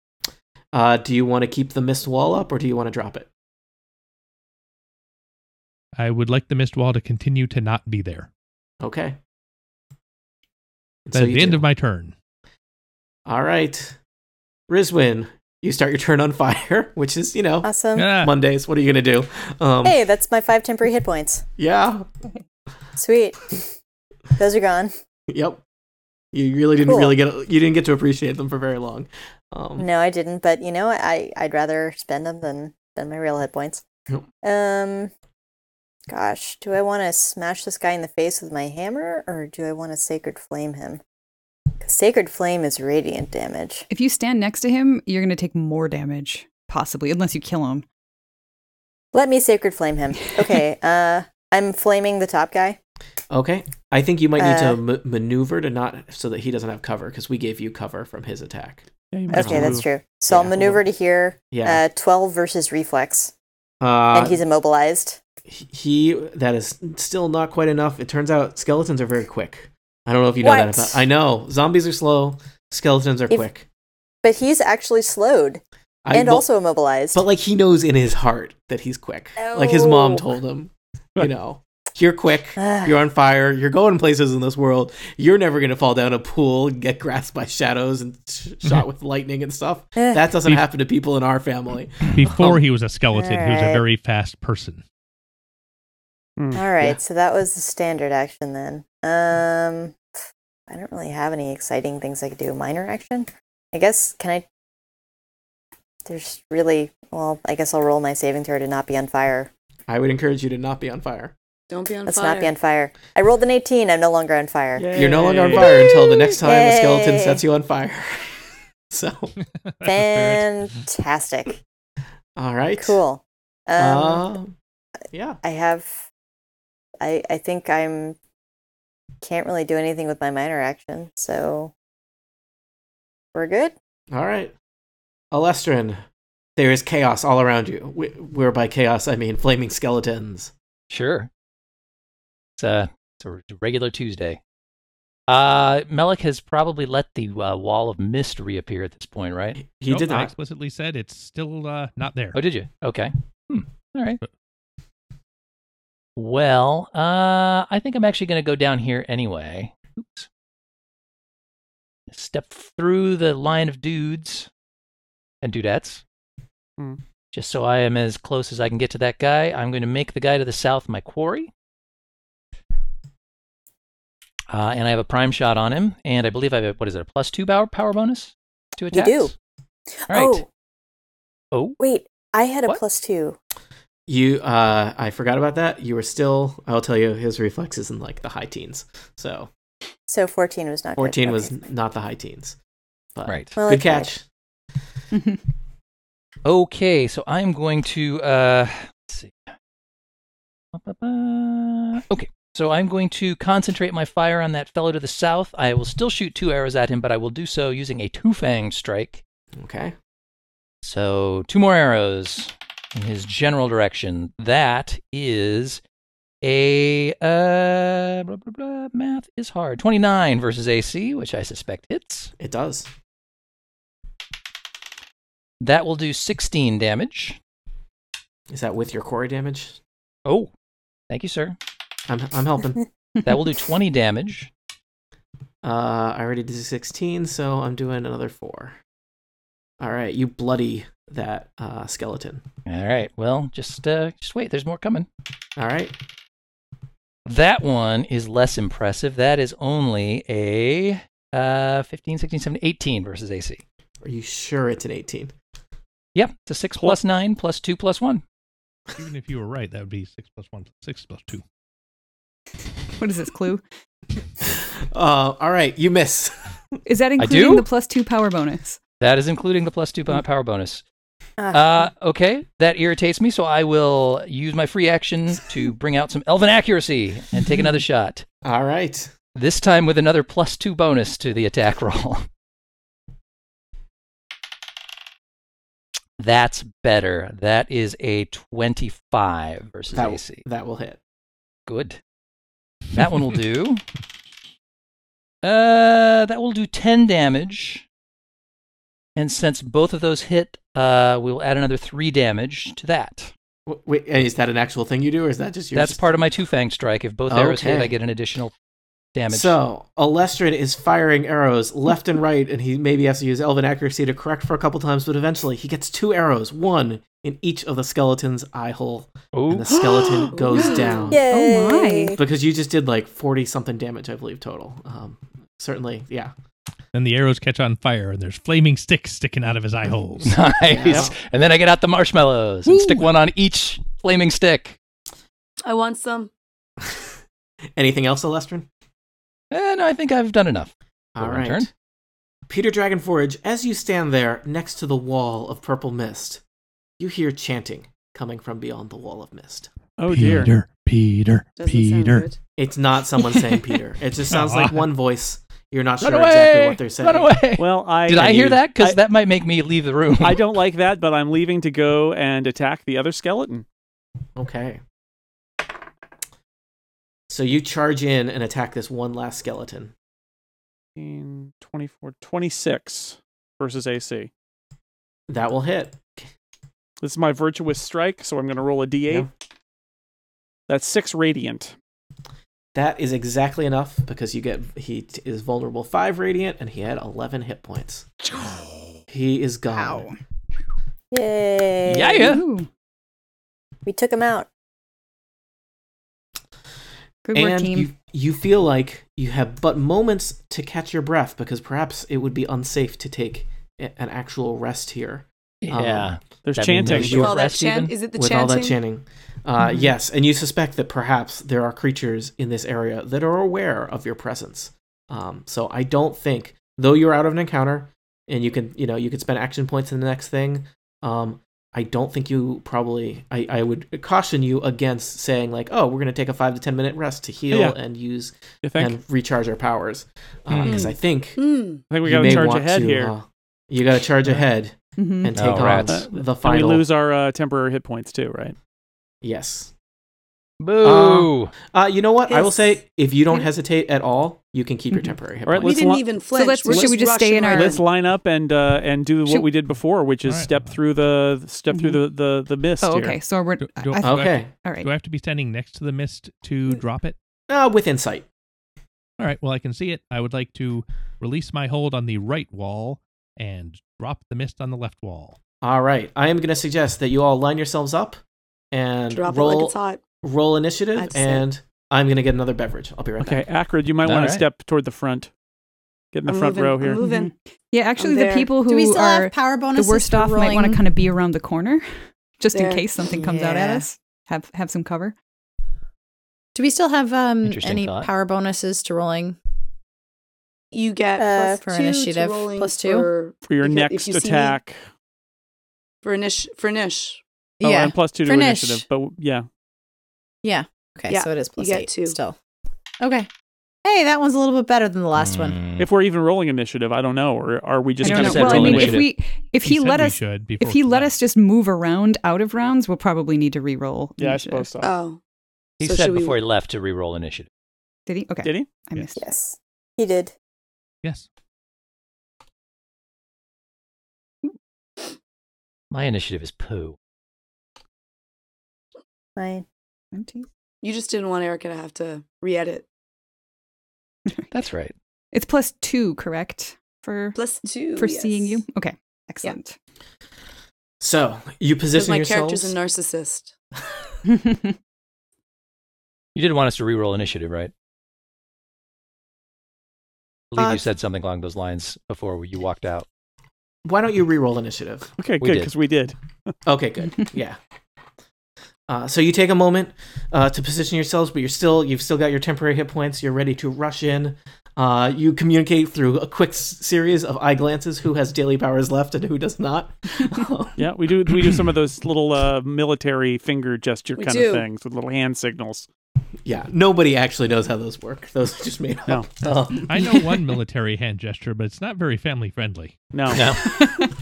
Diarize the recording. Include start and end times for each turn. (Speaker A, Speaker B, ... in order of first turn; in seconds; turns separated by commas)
Speaker A: 0.7-3.3, Speaker B: 6.0-8.3, Speaker A: 8.8-9.2, Speaker A: 11.1-11.6, Speaker B: 11.1-12.1, Speaker A: 13.2-14.0, Speaker A: 14.7-20.0, Speaker C: 17.6-18.1, Speaker B: 17.9-18.3, Speaker C: 19.8-21.4, Speaker A: 21.6-22.1, Speaker C: 22.9-23.6, Speaker C: 24.4-24.9, Speaker A: 25.3-25.6, Speaker A: 26.3-29.9, Speaker C: 26.8-27.2, Speaker C: 29.8-33.8, Speaker C: 34.4-35.1, Speaker C: 36.1-41.0, Speaker C: 41.8-43.8, Speaker D: 43.9-47.8, Speaker C: 49.1-52.8, Speaker A: 53.3-60.8, Speaker C: 54.4-54.8, Speaker E: 59.1-59.9, Speaker C: 59.3-63.3, Speaker A: 61.5-61.8, Speaker A: 63.8-64.4, Speaker C: 64.1-65.2, Speaker A: 65.5-73.7, Speaker C: 70.4-71.0, Speaker C: 74.2-75.6, Speaker A: 76.0-76.5, Speaker C: 76.1-77.2, Speaker A: 77.1-92.6, Speaker C: 79.4-80.3, Speaker C: 82.6-83.0, Speaker C: 90.0-90.3, Speaker B: 92.1-94.8, Speaker C: 93.1-93.8, Speaker E: 96.4-96.6, Speaker C: 96.5-100.0, Speaker C: 100.7-104.4, Speaker C: 106.0-109.5, Speaker A: 109.9-111.3, Speaker F: 111.7-112.5, Speaker C: 112.0-115.0, Speaker E: 114.8-115.8, Speaker A: 114.9-119.3, Speaker C: 115.5-117.4, Speaker B: 119.7-120.5, Speaker C: 119.8-121.6, Speaker A: 122.3-123.0, Speaker C: 122.8-124.3, Speaker A: 123.8-124.5, Speaker A: 125.1-125.4, Speaker C: 125.4-126.0, Speaker C: 127.0-128.2, Speaker C: 129.2-131.7, Speaker C: 133.3-133.7, Speaker A: 134.1-134.5, Speaker A: 135.3-136.0, Speaker A: 136.6-140.5, Speaker G: 140.9-141.3, Speaker G: 142.6-144.4, Speaker G: 145.3-149.6, Speaker A: 149.6-150.3, Speaker B: 149.9-152.4, Speaker G: 152.3-154.2, Speaker G: 156.2-160.3, Speaker G: 162.1-164.5, Speaker G: 165.4-166.0, Speaker G: 167.3-171.5, Speaker G: 174.5-179.3, Speaker C: 178.9-179.3, Speaker C: 180.1-180.4, Speaker G: 180.1-180.4, Speaker C: 181.8-183.4, Speaker A: 184.1-189.5, Speaker C: 190.1-191.6, Speaker A: 191.0-192.6, Speaker A: 193.2-194.2, Speaker G: 193.3-193.6, Speaker C: 193.5-194.1, Speaker G: 196.4-199.5, Speaker G: 200.7-209.2, Speaker A: 209.6-209.9, Speaker G: 210.8-215.8, Speaker G: 216.4-222.3, Speaker A: 222.4-222.9, Speaker G: 225.6-227.4, Speaker A: 228.5-229.8, Speaker G: 230.2-230.5, Speaker G: 231.1-231.6, Speaker A: 232.1-232.8, Speaker G: 233.2-234.5, Speaker A: 235.6-238.8, Speaker A: 239.8-242.4, Speaker G: 242.7-245.1, Speaker A: 245.6-245.9, Speaker G: 247.2-253.6, Speaker A: 254.0-255.3, Speaker G: 256.1-258.2, Speaker B: 259.0-261.4, Speaker D: 263.0-263.6, Speaker A: 264.4-266.4, Speaker D: 266.9-268.8, Speaker G: 267.2-267.7, Speaker G: 269.0-270.8, Speaker C: 271.4-271.9, Speaker G: 271.5-278.2, Speaker A: 278.4-279.1, Speaker G: 279.3-282.3, Speaker G: 286.2-290.4, Speaker A: 289.9-291.0, Speaker G: 291.7-292.0, Speaker G: 292.9-293.8, Speaker G: 295.4-297.8, Speaker G: 299.1-303.3, Speaker A: 303.7-306.2, Speaker G: 305.7-308.5, Speaker A: 307.3-307.9, Speaker G: 309.1-309.6, Speaker A: 309.3-321.2, Speaker G: 319.3-320.3, Speaker F: 320.2-321.1, Speaker D: 320.5-322.1, Speaker C: 321.1-322.2, Speaker A: 322.2-326.3, Speaker B: 326.9-330.4, Speaker G: 330.2-334.8, Speaker A: 330.7-331.2, Speaker B: 332.7-333.1, Speaker F: 335.6-336.3, Speaker A: 337.8-338.7, Speaker G: 339.5-341.7, Speaker A: 341.1-341.7, Speaker A: 342.5-346.4, Speaker A: 347.0-349.7, Speaker E: 350.0-350.5, Speaker B: 350.1-352.3, Speaker F: 351.5-352.4, Speaker A: 352.6-357.4, Speaker G: 353.4-353.6, Speaker B: 354.3-354.8, Speaker G: 356.0-360.5, Speaker E: 357.6-359.0, Speaker E: 360.2-363.6, Speaker A: 364.4-364.8, Speaker A: 367.3-369.9, Speaker E: 370.9-374.3, Speaker A: 375.3-376.3, Speaker E: 377.0-379.3, Speaker E: 380.7-381.7, Speaker A: 382.7-388.1, Speaker A: 389.1-390.1, Speaker D: 389.7-390.2, Speaker C: 391.1-392.3, Speaker G: 391.9-392.4, Speaker D: 392.1-392.7, Speaker C: 393.8-394.5, Speaker D: 397.2-397.9, Speaker A: 397.3-406.1, Speaker G: 405.6-408.0, Speaker E: 406.4-407.3, Speaker A: 406.8-407.4, Speaker F: 407.1-408.8, Speaker A: 408.1-431.4, Speaker D: 409.6-409.9, Speaker E: 427.5-427.8, Speaker E: 428.6-429.0, Speaker G: 430.5-430.8, Speaker F: 430.6-431.8, Speaker E: 431.9-433.1, Speaker A: 432.0-436.8, Speaker D: 435.0-435.4, Speaker G: 435.4-436.0, Speaker E: 435.9-438.6, Speaker A: 439.2-439.7, Speaker G: 440.6-441.5, Speaker A: 440.8-445.8, Speaker F: 442.2-442.6, Speaker E: 445.4-446.1, Speaker F: 445.6-447.8, Speaker D: 446.3-447.8, Speaker E: 446.6-453.2, Speaker B: 450.2-450.7, Speaker D: 451.7-452.0, Speaker D: 452.8-454.9, Speaker B: 453.6-457.1, Speaker A: 454.0-454.5, Speaker A: 457.5-458.3, Speaker B: 459.2-465.4, Speaker A: 465.6-468.2, Speaker A: 468.7-473.4, Speaker F: 469.1-470.0, Speaker F: 470.9-471.4, Speaker E: 473.2-475.3, Speaker G: 474.0-474.4, Speaker E: 476.1-477.0, Speaker F: 476.2-477.3, Speaker D: 476.9-485.1, Speaker F: 478.0-478.5, Speaker H: 478.6-480.8, Speaker F: 482.5-482.9, Speaker H: 483.1-483.9, Speaker H: 486.5-489.4, Speaker G: 487.4-488.1, Speaker F: 490.7-494.6, Speaker C: 491.2-491.6, Speaker H: 491.6-493.1, Speaker E: 493.5-494.8, Speaker F: 496.0-497.2, Speaker H: 497.6-498.8, Speaker E: 497.6-499.5, Speaker H: 500.4-502.4, Speaker F: 501.1-502.2, Speaker H: 503.0-503.3, Speaker H: 503.8-505.6, Speaker G: 505.1-505.9, Speaker E: 505.8-509.0, Speaker G: 508.0-509.1, Speaker D: 508.0-514.7, Speaker B: 509.6-511.1, Speaker E: 514.2-514.9, Speaker F: 514.8-515.2, Speaker F: 515.8-516.4, Speaker G: 515.8-517.5, Speaker D: 518.1-519.2, Speaker C: 519.1-520.3, Speaker G: 525.9-527.0, Speaker C: 529.4-529.6, Speaker D: 530.1-530.5, Speaker F: 530.8-532.9, Speaker G: 534.5-534.9, Speaker D: 535.3-537.4, Speaker F: 537.3-538.6, Speaker D: 537.9-539.8, Speaker A: 541.0-542.8, Speaker F: 541.9-543.5, Speaker D: 544.3-544.6, Speaker G: 546.3-547.7, Speaker G: 550.5-553.0, Speaker A: 550.6-550.9, Speaker A: 553.8-555.1, Speaker E: 555.2-556.5, Speaker G: 555.4-555.7, Speaker A: 556.6-557.6, Speaker A: 558.9-570.8, Speaker E: 570.8-575.9, Speaker F: 574.1-574.6, Speaker A: 576.4-580.2, Speaker B: 579.8-583.1, Speaker E: 583.1-583.5, Speaker G: 583.3-583.6, Speaker A: 583.8-584.0